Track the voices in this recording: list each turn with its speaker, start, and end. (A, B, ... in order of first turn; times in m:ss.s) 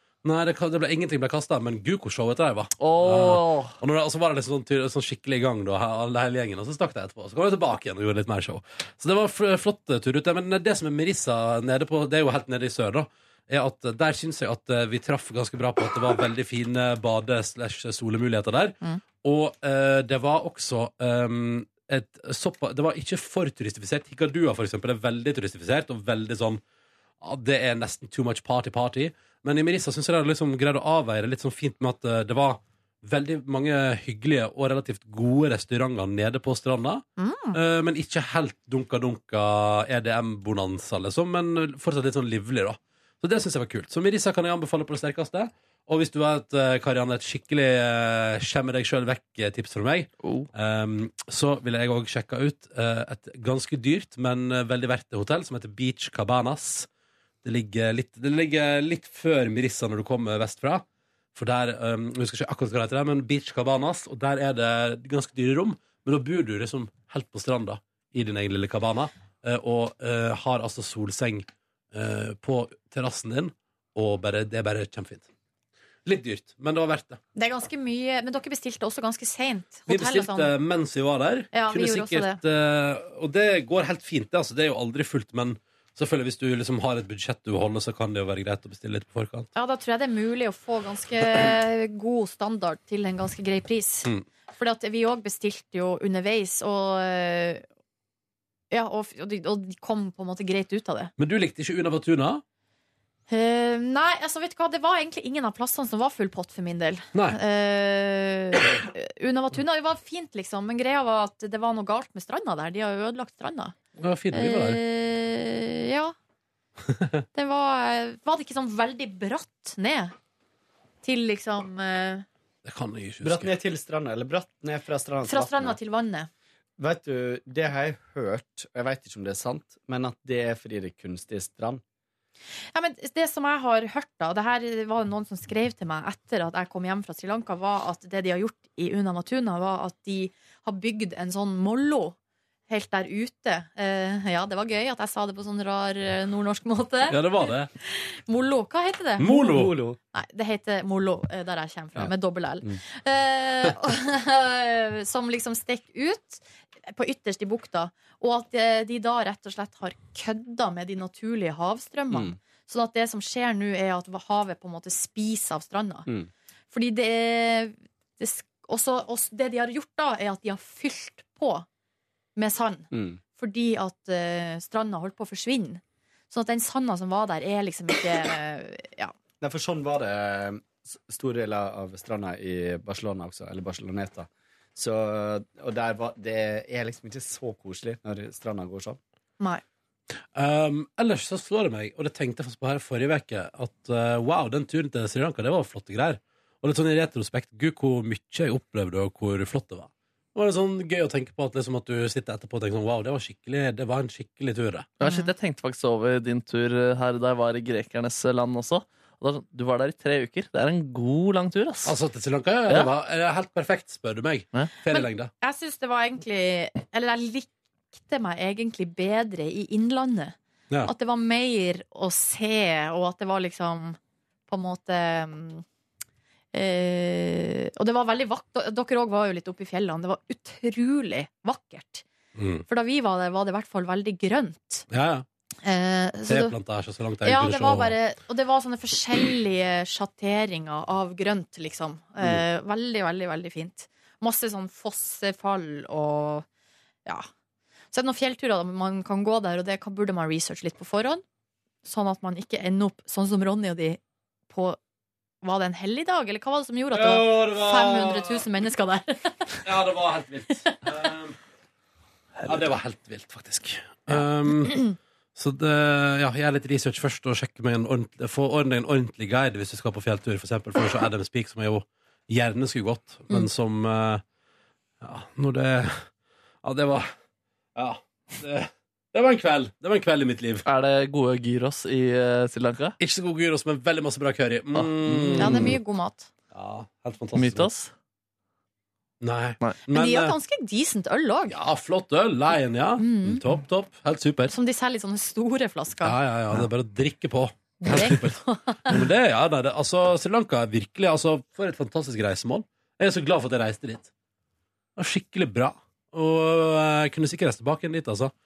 0:00.2-0:26.6 A
0:02.8-0:03.8 B
0:27.2-0:56.9 A
0:37.2-0:37.6 C
0:50.2-0:50.5 B
0:57.4-1:15.3 A
1:16.0-1:17.2 A
1:17.4-1:20.5 C
1:19.9-1:29.5 A
1:21.5-1:22.4 C
1:29.6-1:37.6 C
1:38.7-1:41.1 C
1:41.2-1:42.4 A
1:43.3-1:53.8 C
1:47.1-1:47.4 A
1:54.0-1:54.8 A
1:54.3-1:56.2 C
1:57.3-2:00.1 C
2:01.0-2:02.2 C
2:02.6-2:03.5 A
2:03.2-2:05.8 D
2:05.3-2:06.3 C
2:06.8-2:11.8 D
2:12.7-2:22.2 C
2:22.7-2:29.3 C
2:27.1-2:27.7 A
2:29.2-2:29.8 A
2:29.5-2:30.0 D
2:30.1-2:46.1 C
2:42.1-2:42.4 D
2:46.7-2:51.7 C
2:52.4-2:59.1 C
2:52.9-2:53.2 D
2:59.4-3:09.0 D
3:10.3-3:24.9 A
3:25.0-3:32.0 B
3:25.0-3:25.3 C
3:31.8-3:35.3 A
3:34.9-3:45.6 C
3:46.5-3:52.0 C
3:52.4-3:52.6 A
3:52.7-3:54.9 C
3:54.9-3:55.3 A
3:55.6-3:56.6 C
3:56.3-3:58.0 A
3:57.2-4:06.5 C
4:07.9-4:11.2 C
4:11.8-4:14.8 C
4:15.4-4:19.6 C
4:16.9-4:18.5 A
4:19.6-4:21.4 A
4:22.5-4:34.2 A
4:35.0-4:36.1 A
4:36.6-4:37.1 A
4:37.8-4:40.6 A
4:40.6-4:43.0 B
4:43.0-4:45.8 A
4:44.8-4:45.8 B
4:45.4-4:46.3 C
4:46.5-4:47.7 A
4:47.4-4:47.9 B
4:49.2-4:50.4 A
4:49.9-4:51.6 C
4:51.5-4:54.5 A
4:53.0-4:53.4 C
4:54.5-4:56.2 C
4:56.0-5:04.1 A
4:57.8-4:59.0 C
5:05.0-5:08.3 A